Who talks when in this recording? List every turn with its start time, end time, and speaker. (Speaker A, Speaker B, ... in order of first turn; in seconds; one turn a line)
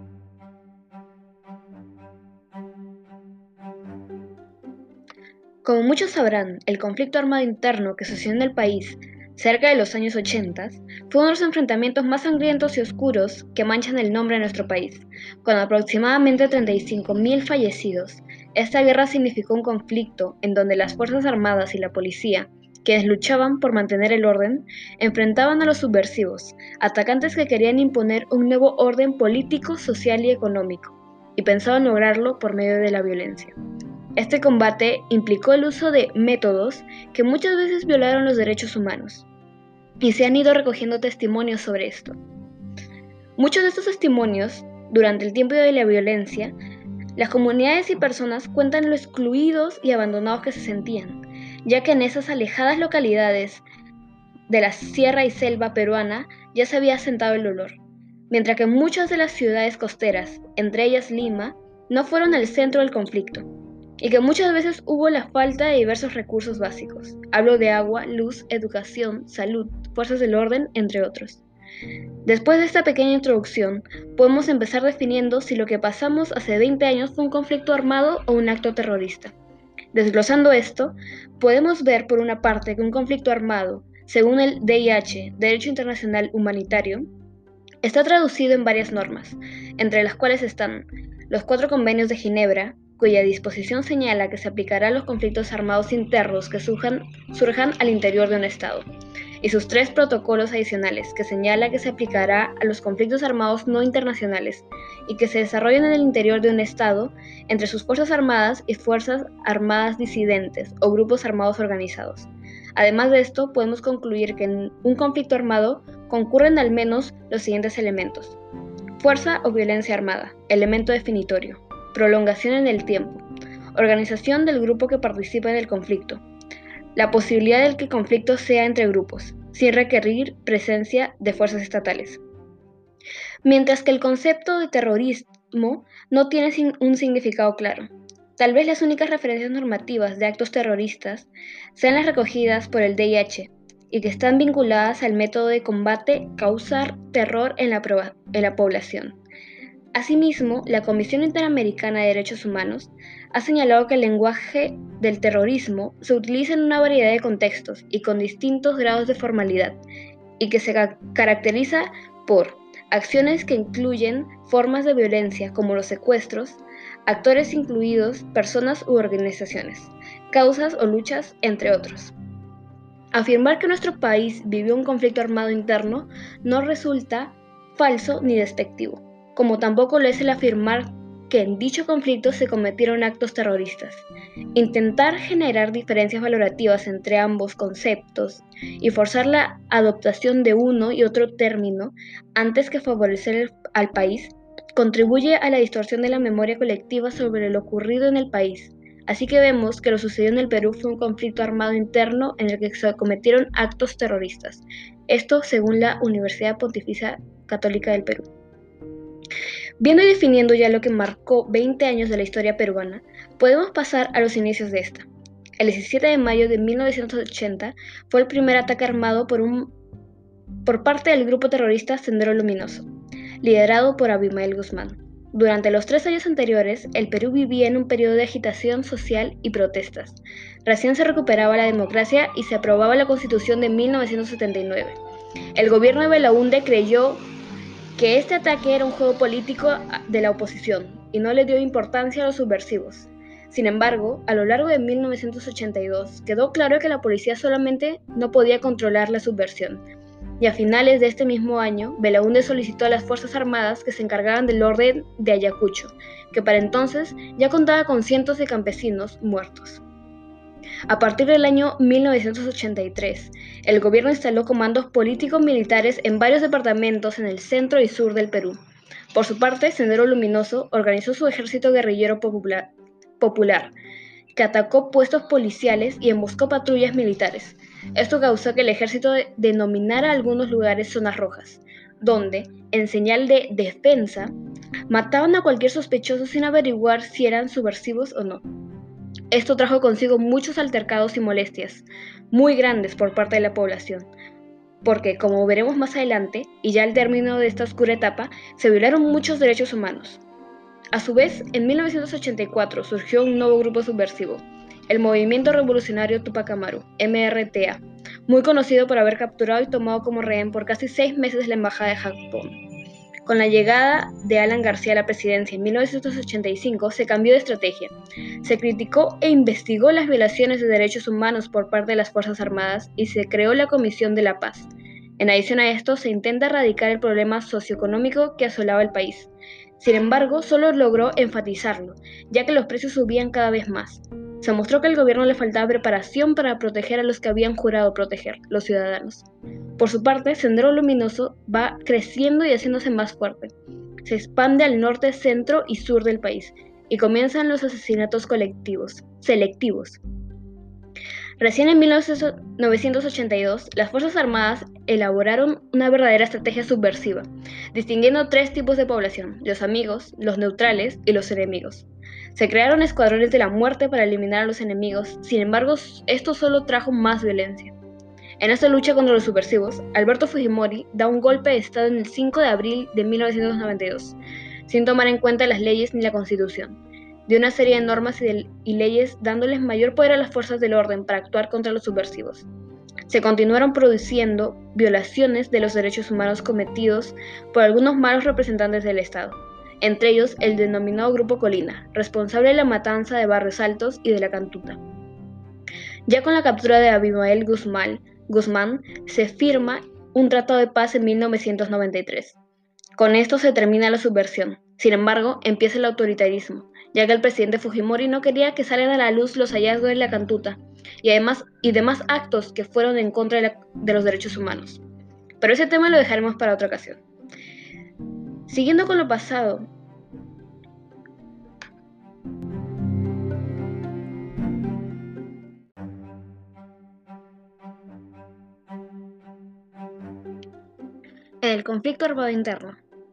Speaker A: 5.6-33.6
Speaker A: 34.2-39.3
Speaker A: 40.0-42.2
Speaker A: 43.4-46.5
Speaker A: 47.2-53.6
Speaker A: 54.5-57.8
Speaker A: 58.3-63.5
Speaker A: 64.0-71.4
Speaker A: 72.2-79.3
Speaker A: 79.9-87.1
Speaker A: 87.8-98.9
Speaker A: 99.4-118.4
Speaker A: 119.0-123.2
Speaker A: 123.8-126.2
Speaker A: 127.0-132.2
Speaker A: 133.4-149.2
Speaker A: 149.9-159.8
Speaker A: 160.4-172.1
Speaker A: 173.1-208.3
Speaker A: 209.8-215.1
Speaker A: 215.6-219.7
Speaker A: 220.7-222.9
Speaker A: 223.4-235.0
Speaker A: 235.6-237.2
Speaker A: 238.0-249.8
Speaker A: 250.4-259.8
Speaker A: 260.9-268.6
Speaker A: 269.1-273.7
Speaker A: 274.4-284.3
Speaker A: 284.9-288.4
Speaker A: 289.3-294.1
Speaker A: 294.8-300.2
Speaker A: 300.9-312.6
Speaker A: 313.2-339.2
Speaker A: 339.8-343.5
Speaker A: 344.1-350.0
Speaker A: 351.4-367.8
Speaker A: 368.4-382.5
Speaker A: 383.1-394.8
Speaker A: 396.1-402.4
Speaker A: 403.0-414.8
Speaker A: 415.4-417.0
Speaker A: 418.5-419.7
Speaker A: 431.4-432.8